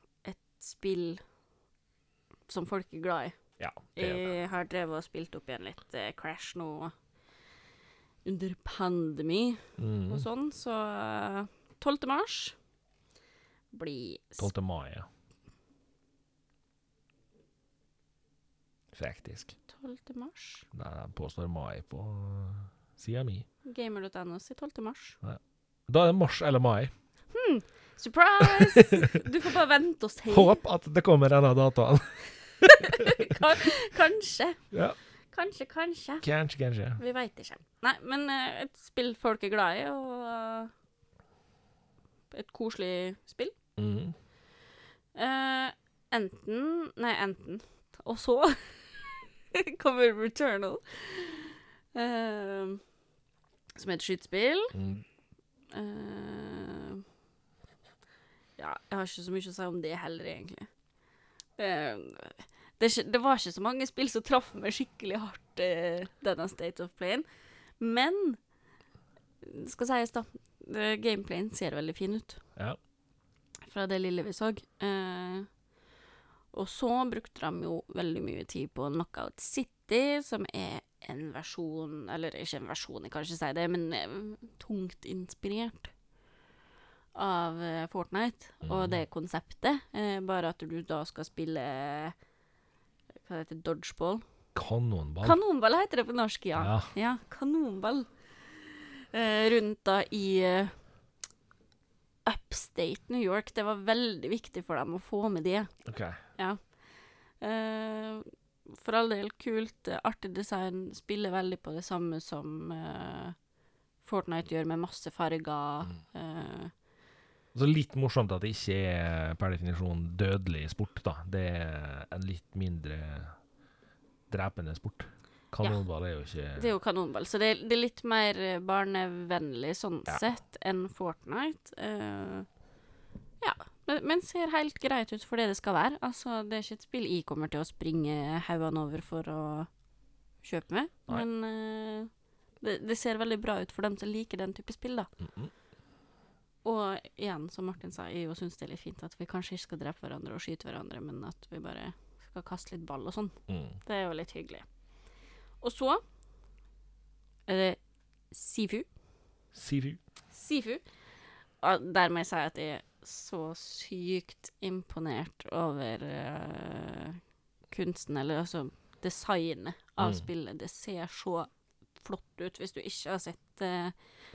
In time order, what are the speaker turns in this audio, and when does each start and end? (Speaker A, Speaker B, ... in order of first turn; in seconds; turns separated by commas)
Speaker A: 0.2-1.2, Speaker A: 2.5-3.4, Speaker B: 3.6-4.3, Speaker A: 4.0-6.9, Speaker A: 8.2-12.6, Speaker B: 9.8-10.2, Speaker A: 13.7-14.5, Speaker B: 14.4-15.1, Speaker B: 18.9-19.5, Speaker A: 19.7-20.7, Speaker B: 20.7-23.4, Speaker A: 23.6-25.2, Speaker B: 25.2-26.9, Speaker A: 27.3-30.6, Speaker B: 28.4-29.2, Speaker B: 30.3-33.4, Speaker A: 32.6-34.7, Speaker B: 34.7-35.0, Speaker A: 35.3-36.2, Speaker B: 36.2-37.0, Speaker A: 37.0-40.7, Speaker A: 42.3-43.5, Speaker B: 43.8-44.1, Speaker A: 45.1-52.8, Speaker A: 53.8-54.8, Speaker B: 54.7-55.0, Speaker A: 55.7-57.0, Speaker A: 58.6-60.7, Speaker A: 61.6-67.2, Speaker A: 67.8-68.4, Speaker A: 69.4-72.4, Speaker A: 73.7-75.5, Speaker A: 76.5-85.9, Speaker A: 87.1-92.2, Speaker B: 88.6-89.0, Speaker A: 93.2-94.2, Speaker B: 94.5-95.4, Speaker A: 95.2-100.8, Speaker B: 96.6-96.9, Speaker A: 102.2-105.7, Speaker B: 105.8-106.2, Speaker A: 106.4-106.7, Speaker A: 107.4-113.4, Speaker A: 114.0-116.7, Speaker B: 117.5-123.3, Speaker B: 124.3-126.7, Speaker A: 126.5-132.5, Speaker A: 133.4-139.7, Speaker A: 140.4-145.1, Speaker B: 145.2-145.5, Speaker A: 146.6-154.6, Speaker B: 153.5-153.8, Speaker A: 155.6-156.0, Speaker A: 157.5-157.8, Speaker A: 158.3-158.9, Speaker B: 159.5-160.0, Speaker A: 160.3-160.8, Speaker A: 161.6-173.9, Speaker B: 170.0-170.2